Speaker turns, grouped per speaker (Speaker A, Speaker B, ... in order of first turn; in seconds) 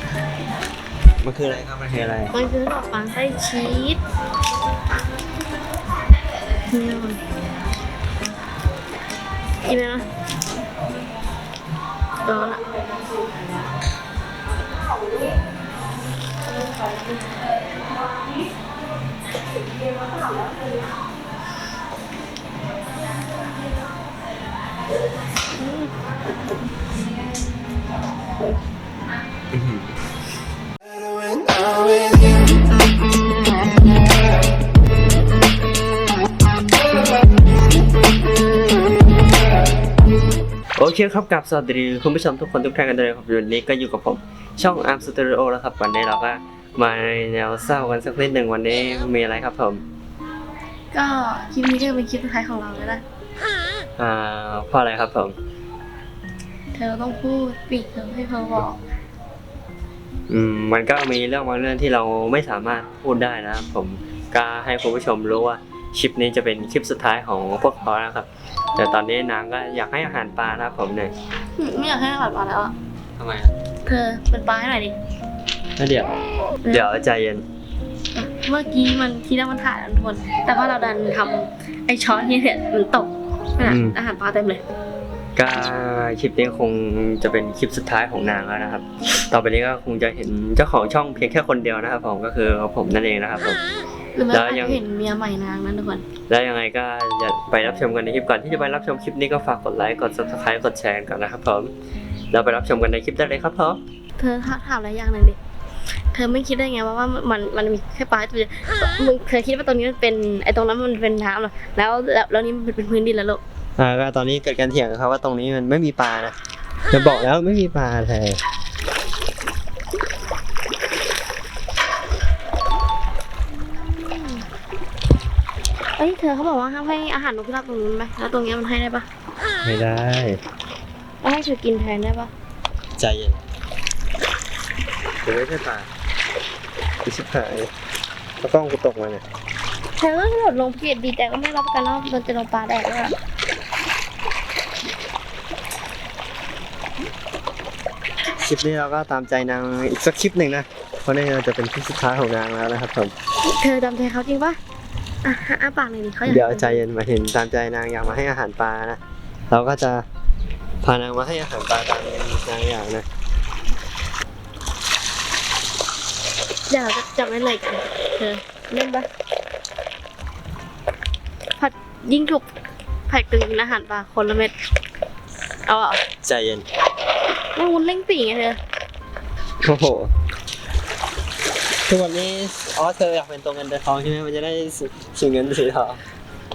Speaker A: 1.2-2.3, 29.5-30.0, 40.8-49.8, 54.0-55.3, 60.3-71.1, 73.2-73.5, 75.8-76.1, 76.7-77.4, 83.6-84.0, 85.4-93.6, 94.3-94.8, 96.3-101.7, 102.3-103.8, 113.8-116.3, 116.9-118.4, 129.6-130.4, 133.0-133.4, 135.2-135.9, 137.0-137.7, 138.4-139.2, 148.4-153.1, 156.2-160.0, 160.8-163.1, 176.2-176.7, 179.6-180.1, 181.9-186.0
Speaker B: 2.3-4.0, 6.7-7.2, 9.6-10.1, 12.2-12.6, 25.6-25.9, 50.9-53.0, 56.7-58.8, 71.6-72.7, 73.9-75.0, 76.6-76.9, 78.2-84.6, 94.2-96.0, 104.2-105.4, 106.1-113.4, 123.6-124.5, 126.0-129.1, 131.2-132.3, 140.0-143.2, 153.4-154.6, 155.2-156.8, 166.7-169.1, 171.6-172.4, 173.1-174.5, 175.7-176.0, 177.6-178.6